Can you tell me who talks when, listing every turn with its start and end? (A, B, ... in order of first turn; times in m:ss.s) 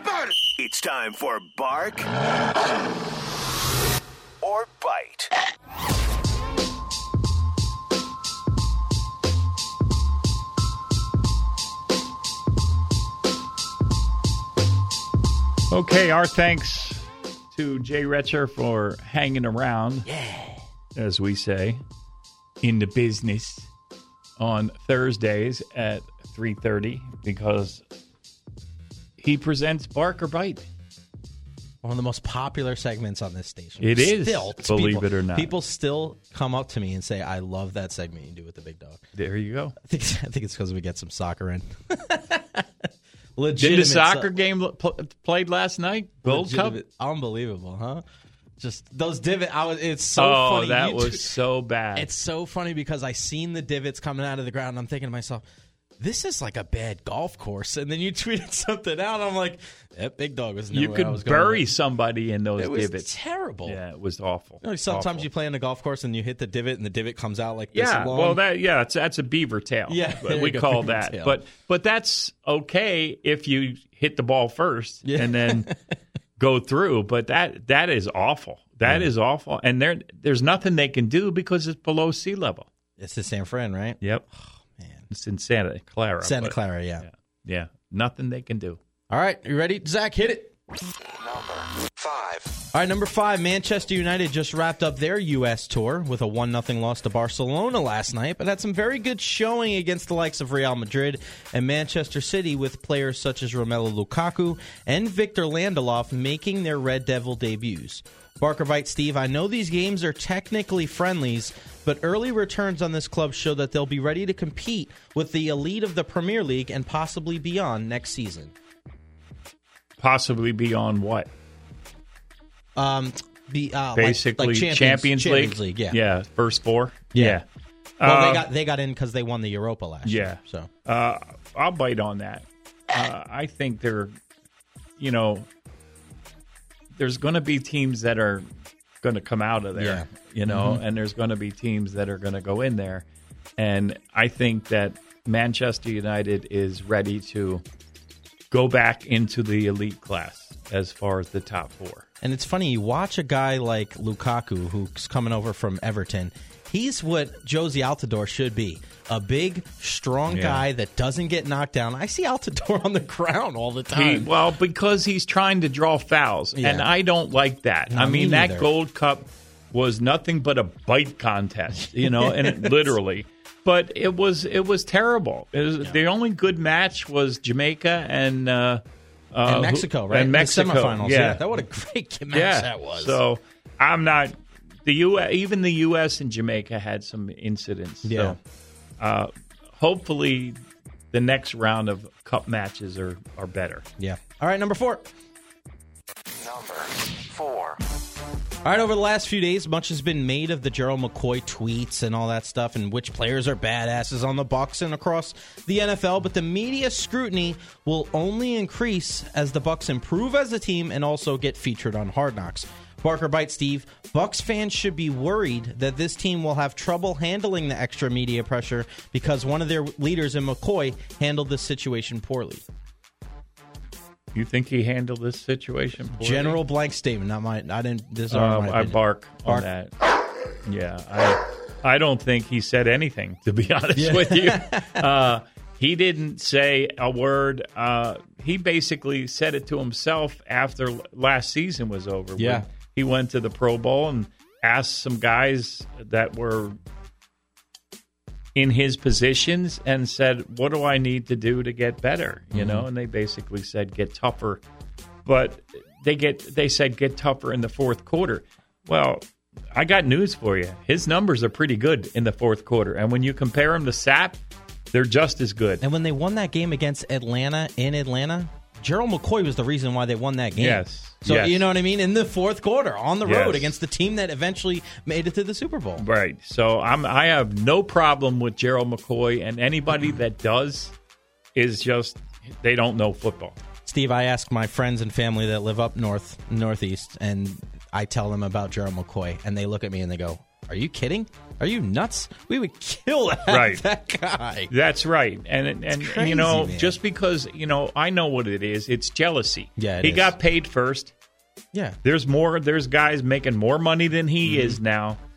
0:00.6-0:02.1 A
0:04.4-0:05.3 A
0:15.7-0:20.1 B
0:20.2-0:20.5 C
0:20.9-0:21.8 B
0:22.6-0:23.7 B
0:24.4-0:27.8 B
0:29.2-0:30.7 B
0:31.8-0:39.0 C
0:33.8-0:35.5 B
0:39.1-0:39.7 B
0:39.8-0:42.7 C
0:43.4-0:44.3 C
0:43.6-0:46.8 B
0:46.2-0:48.0 C
0:48.6-0:51.3 C
0:50.2-0:52.1 B
0:51.9-0:55.4 C
0:56.0-1:01.7 C
1:00.7-1:03.1 B
1:02.6-1:03.8 C
1:03.6-1:05.3 B
1:04.6-1:08.4 C
1:07.7-1:15.7 B
1:09.9-1:11.4 C
1:15.1-1:15.7 C
1:16.4-1:22.7 B
1:18.8-1:19.1 C
1:23.0-1:24.0 C
1:24.8-1:25.1 C
1:25.1-1:28.8 B
1:26.2-1:27.0 C
1:29.1-1:30.5 C
1:31.1-1:32.5 D
1:32.7-1:58.5 C
2:00.0-2:01.3 B
2:02.8-2:06.0 C
2:03.9-2:07.4 B
2:07.1-2:07.4 C
2:08.0-2:08.4 B
2:08.0-2:10.7 C
2:10.0-2:14.1 B
2:15.0-2:15.5 B
2:17.0-2:18.5 B
2:19.0-2:23.0 B
2:19.7-2:20.8 C
2:23.6-2:27.6 B
2:28.5-2:32.0 B
2:32.2-2:44.3 C
2:40.3-2:40.6 B
2:43.9-2:58.8 B
2:46.6-2:46.9 C
2:47.9-2:48.7 C
2:52.0-2:52.9 C
2:59.3-3:01.4 B
2:59.4-3:03.2 C
3:02.3-3:08.4 B
3:08.0-3:08.4 C
3:09.0-3:10.6 B
3:11.1-3:13.8 B
3:14.0-3:15.1 C
3:16.4-3:17.8 D
3:18.6-3:42.6 C
3:44.3-3:46.6 B
3:46.1-3:49.7 C
3:48.3-3:49.9 B
3:50.6-4:06.8 B
3:53.9-3:55.0 C
4:02.4-4:02.6 C
4:08.5-4:14.6 B
4:12.5-4:12.8 C
4:15.2-4:24.4 B
4:24.9-4:25.8 B
4:25.8-4:36.0 C
4:30.5-4:31.6 B
4:33.2-4:33.8 B
4:36.0-4:40.9 B
4:41.5-4:43.6 B
4:43.8-4:54.7 C
4:53.5-4:53.8 B
4:54.7-5:01.1 B
4:55.9-4:57.0 C
4:59.8-5:00.3 C
5:01.7-5:02.0 C
5:02.0-5:05.2 B
5:04.4-5:04.8 C